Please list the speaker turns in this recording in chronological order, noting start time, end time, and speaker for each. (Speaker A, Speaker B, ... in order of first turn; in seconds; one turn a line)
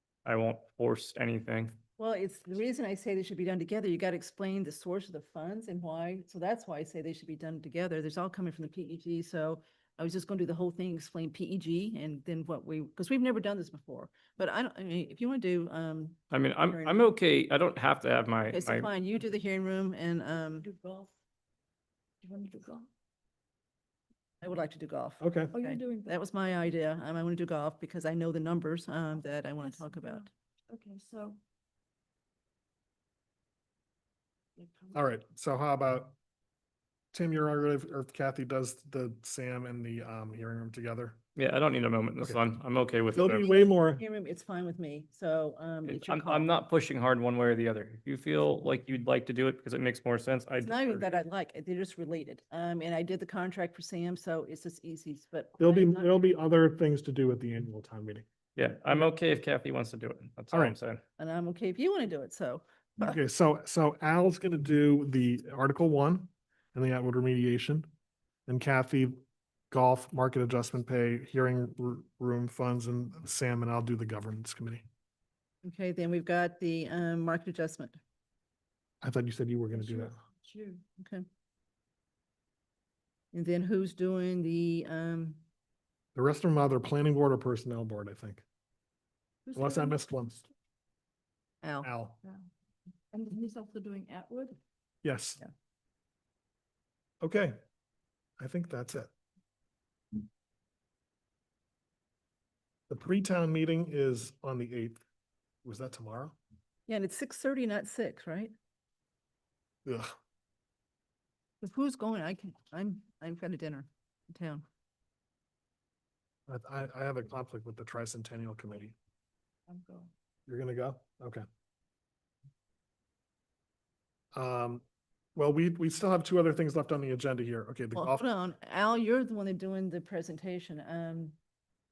Speaker A: 0.2-1.8
Speaker B: 2.0-16.2
Speaker A: 16.3-18.9
Speaker B: 16.7-17.1
Speaker B: 18.5-20.7
Speaker C: 20.6-21.1
Speaker C: 22.2-22.9
Speaker B: 24.4-30.3
Speaker D: 25.2-25.5
Speaker C: 25.5-26.2
Speaker C: 29.6-31.4
Speaker C: 34.6-34.9
Speaker D: 34.9-36.1
Speaker D: 37.1-41.2
Speaker A: 41.4-43.5
Speaker D: 43.1-44.0
Speaker B: 43.3-46.5
Speaker A: 45.9-51.0
Speaker B: 50.6-56.1
Speaker D: 55.6-58.2
Speaker A: 58.6-61.0
Speaker B: 61.2-63.2
Speaker D: 63.0-67.9
Speaker D: 68.5-69.2
Speaker D: 69.7-74.8
Speaker B: 75.6-78.0
Speaker D: 79.0-80.1
Speaker C: 79.7-80.8
Speaker B: 81.0-81.2
Speaker B: 83.3-85.4
Speaker D: 86.2-88.4
Speaker C: 89.5-90.0
Speaker D: 89.5-90.4
Speaker B: 91.6-91.9
Speaker D: 91.8-92.2
Speaker C: 93.1-94.6
Speaker D: 95.0-95.4
Speaker D: 97.2-97.6
Speaker D: 98.4-99.1
Speaker D: 102.9-105.0
Speaker D: 105.6-106.4
Speaker B: 106.9-108.5
Speaker B: 111.6-114.6
Speaker D: 116.5-119.0
Speaker C: 119.7-120.1
Speaker D: 120.5-121.4
Speaker D: 124.3-124.8
Speaker D: 125.4-128.2
Speaker B: 128.0-131.3